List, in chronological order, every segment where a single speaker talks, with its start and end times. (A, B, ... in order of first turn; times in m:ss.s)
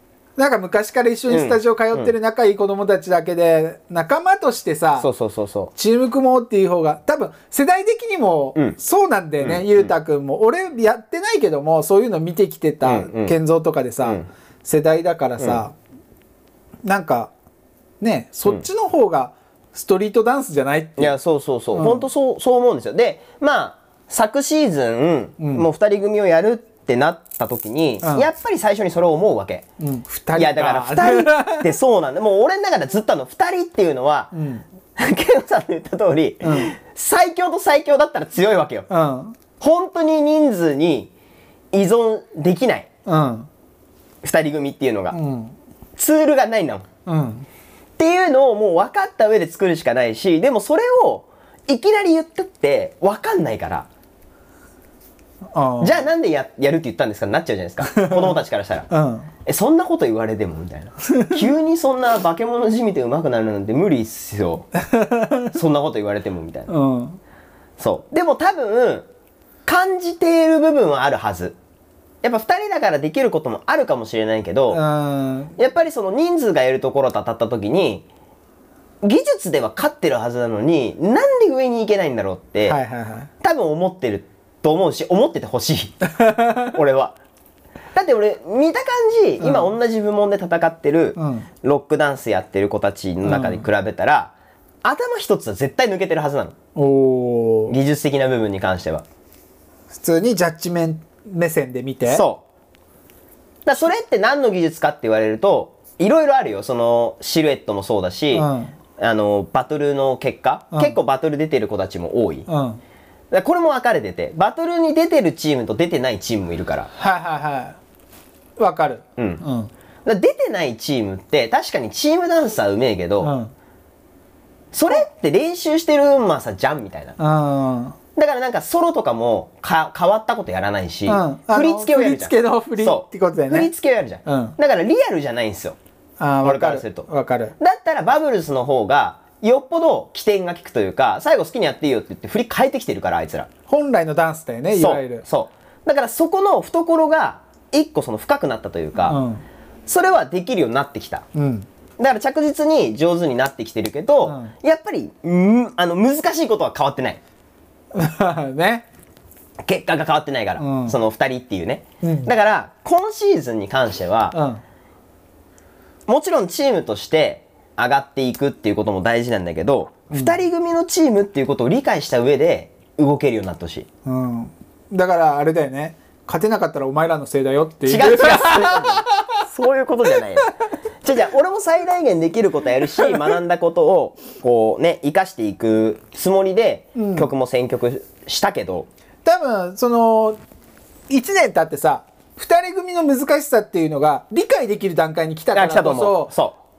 0:00.4-0:05.1 A
0:01.3-0:02.1 B
0:05.0-0:05.7 B
0:05.7-0:15.7 A
0:09.4-0:09.9 B
0:12.8-0:13.4 B
0:16.8-0:17.3 A
0:18.0-0:21.1 A
0:21.0-0:29.6 B
0:21.7-0:22.0 A
0:25.4-0:25.7 A
0:28.0-0:28.3 A
0:29.8-0:31.7 A
0:30.3-0:34.3 B
0:34.3-0:34.6 A
0:35.0-0:38.8 B
0:36.4-0:36.7 A
0:38.9-0:39.4 A
0:39.6-0:41.1 B
0:41.7-0:42.9 B
0:43.0-0:43.5 A
0:44.2-0:45.2 B
0:45.1-0:45.5 A
0:46.0-0:46.8 B
0:47.0-0:47.4 A
0:48.0-0:53.9 B
0:55.5-0:56.0 A
0:55.8-0:58.9 B
0:57.8-0:58.3 A
0:58.9-0:59.3 A
0:59.4-1:04.7 B
1:01.1-1:01.4 A
1:04.9-1:05.5 A
1:05.5-1:06.7 B
1:06.7-1:07.2 A
1:07.8-1:09.1 B
1:09.6-1:11.6 B
1:12.2-1:14.8 B
1:14.7-1:15.6 A
1:15.6-1:18.0 B
1:19.0-1:22.8 B
1:22.6-1:23.3 A
1:23.4-1:26.0 B
1:26.2-1:26.7 A
1:26.6-1:27.2 B
1:27.9-1:34.3 B
1:29.4-1:29.7 A
1:31.2-1:31.5 A
1:33.2-1:33.6 A
1:34.8-1:36.5 B
1:36.8-1:37.7 A
1:37.7-1:39.0 B
1:39.9-1:42.2 A
1:42.1-1:42.4 B
1:43.6-1:52.4 B
1:48.3-1:48.7 A
1:52.5-1:52.8 A
1:53.3-1:56.9 B
1:56.9-1:57.8 A
1:58.6-1:59.7 A
1:59.2-1:59.4 B
2:00.0-2:03.3 B
2:03.2-2:03.5 A
2:04.7-2:07.2 B
2:07.2-2:08.0 A
2:08.2-2:15.8 B
2:11.0-2:13.7 A
2:14.2-2:14.6 A
2:16.2-2:17.5 A
2:16.4-2:17.0 B
2:17.6-2:23.5 B
2:23.7-2:25.2 A
2:24.7-2:29.2 B
2:29.0-2:29.4 A
2:29.8-2:31.2 B
2:31.3-2:31.7 A
2:32.0-2:37.2 B
2:34.2-2:34.5 A
2:37.9-2:38.8 A
2:39.6-2:44.4 B
2:40.6-2:41.0 A
2:42.0-2:42.3 A
2:44.3-2:44.6 A
2:46.1-2:53.9 B
2:50.1-2:50.4 A
2:54.0-2:59.1 A
2:57.9-3:08.9 B
3:06.9-3:07.3 A
3:09.2-3:10.4 A
3:11.1-3:16.3 A
3:15.5-3:16.6 B